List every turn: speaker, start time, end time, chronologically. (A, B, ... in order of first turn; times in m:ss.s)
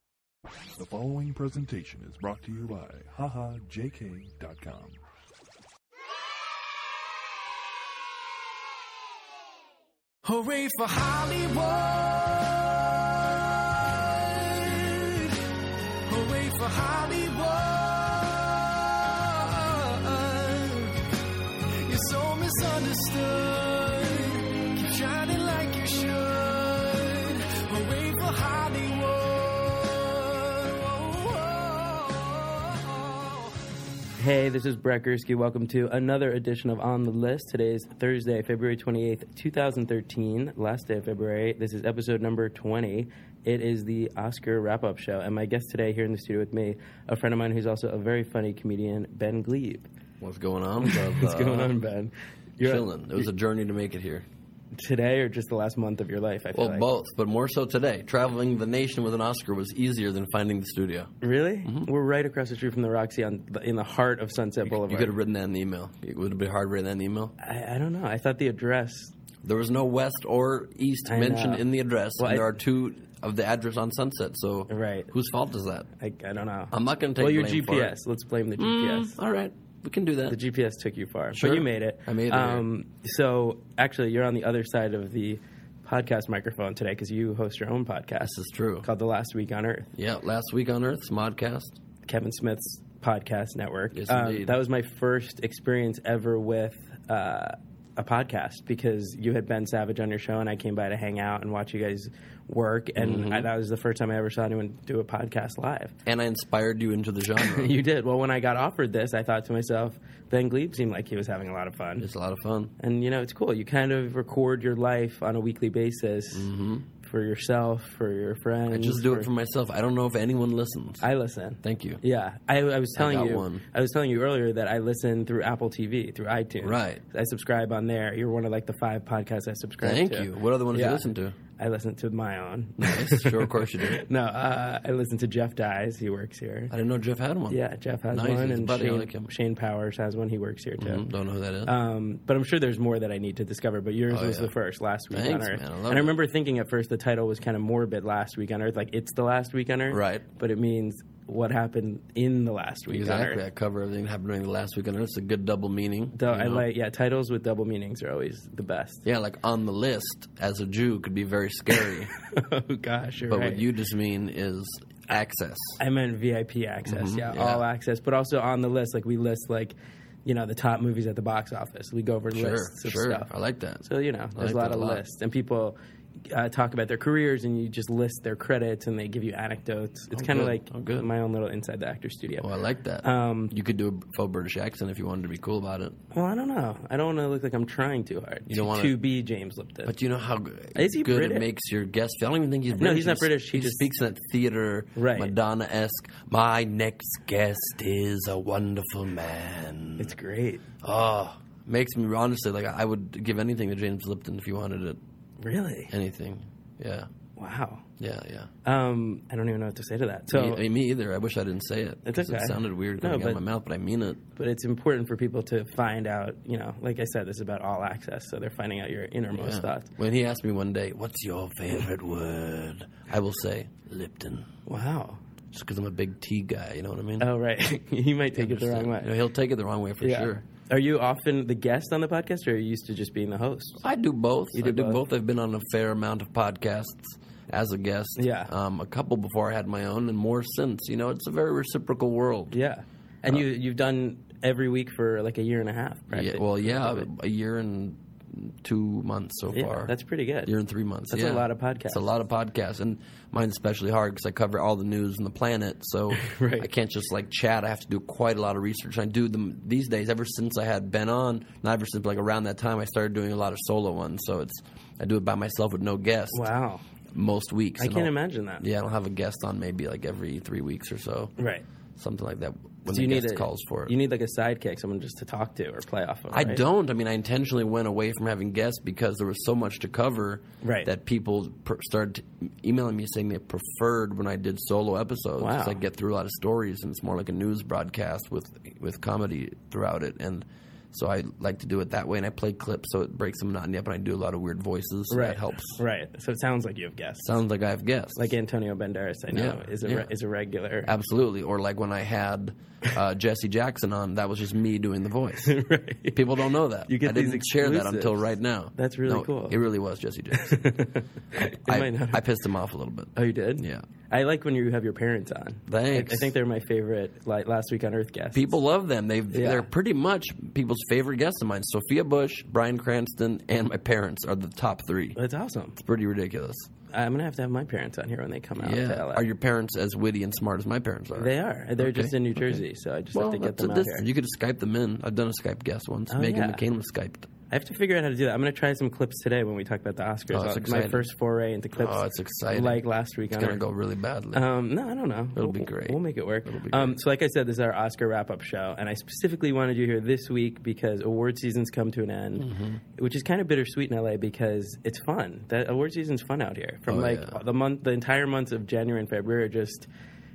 0:00.8-0:05.0 A
0:10.2-0:15.4 B
0:16.0-0:21.0 B
0:21.8-0:33.5 B
0:34.2-0:49.9 C
0:50.2-0:51.8 D
0:50.8-0:53.2 C
0:52.6-0:54.2 D
0:54.8-0:56.9 C
0:56.5-1:01.9 D
1:01.2-1:05.1 C
1:04.6-1:07.3 D
1:07.4-1:09.1 C
1:09.4-1:15.9 D
1:11.0-1:11.6 C
1:12.2-1:12.6 C
1:14.7-1:15.1 C
1:16.0-1:19.2 C
1:16.7-1:18.0 D
1:18.6-1:20.4 D
1:20.3-1:29.9 C
1:21.3-1:22.6 D
1:28.2-1:28.9 D
1:30.0-1:31.8 D
1:32.0-1:45.9 C
1:33.9-1:34.6 D
1:43.0-1:43.5 D
1:46.0-1:47.7 D
1:47.4-1:52.1 C
1:52.0-1:52.7 D
1:52.8-1:56.5 C
1:56.3-1:56.9 D
1:57.0-1:59.3 C
1:58.7-2:01.1 D
2:01.0-2:16.7 C
2:01.6-2:02.0 D
2:03.0-2:03.6 D
2:06.6-2:07.0 D
2:09.8-2:11.4 D
2:12.8-2:14.0 D
2:16.7-2:19.3 D
2:17.5-2:21.0 C
2:20.8-2:21.7 D
2:21.6-2:33.4 C
2:24.1-2:24.5 D
2:25.1-2:26.1 D
2:29.9-2:30.2 D
2:32.9-2:36.6 D
2:36.1-2:39.0 C
2:39.0-2:42.1 D
2:41.8-2:43.6 C
2:43.2-2:45.8 D
2:45.8-2:53.3 C
2:46.9-2:47.6 D
2:52.3-2:55.0 D
2:53.8-2:55.8 C
2:56.3-3:02.5 C
3:00.1-3:01.1 D
3:02.4-3:06.0 D
3:03.0-3:03.5 C
3:06.1-3:09.9 C
3:08.5-3:09.0 D
3:09.8-3:20.1 D
3:10.7-3:11.5 C
3:12.8-3:13.8 C
3:15.0-3:15.3 C
3:20.0-3:20.6 C
3:20.8-3:25.0 D
3:25.4-3:25.9 C
3:25.9-3:27.1 D
3:27.4-3:27.8 C
3:28.0-3:28.5 D
3:28.6-3:30.6 C
3:30.3-3:34.2 D
3:32.0-3:33.4 C
3:34.4-3:39.9 C
3:39.3-3:44.5 D
3:44.7-3:45.2 C
3:45.5-3:47.3 D
3:47.2-3:49.1 C
3:48.3-3:50.4 D
3:50.0-3:53.8 C
3:53.8-4:02.5 D
3:54.5-3:55.0 C
3:58.2-3:58.5 C
4:02.5-4:07.1 C
4:06.1-4:26.5 D
4:09.5-4:10.5 C
4:11.1-4:12.1 C
4:16.1-4:16.7 C
4:26.3-4:26.8 C
4:27.1-4:31.3 D
4:27.8-4:28.6 C
4:31.4-4:31.6 C
4:32.0-4:33.9 D
4:32.9-4:36.6 C
4:36.3-4:55.8 D
4:40.6-4:40.9 C
4:45.4-4:45.8 C
4:55.1-4:57.3 C
4:57.2-4:58.3 D
4:58.2-5:00.9 C
4:59.3-5:00.1 D
5:00.8-5:05.6 D
5:05.4-5:06.2 C
5:06.1-5:13.8 D
5:06.9-5:08.2 C
5:08.7-5:09.6 C
5:10.3-5:12.2 C
5:13.1-5:18.6 C
5:15.7-5:16.3 D
5:18.3-5:25.2 D
5:19.3-5:19.7 C
5:25.2-5:25.8 C
5:25.7-5:26.7 D
5:26.9-5:29.2 C
5:28.6-5:37.3 D
5:31.1-5:34.0 C
5:36.1-5:36.6 C
5:37.5-5:43.6 C
5:40.3-5:41.1 D
5:41.8-5:44.5 D
5:44.3-5:59.9 C
5:45.3-5:47.0 D
5:52.4-5:52.8 D
5:56.8-5:57.4 D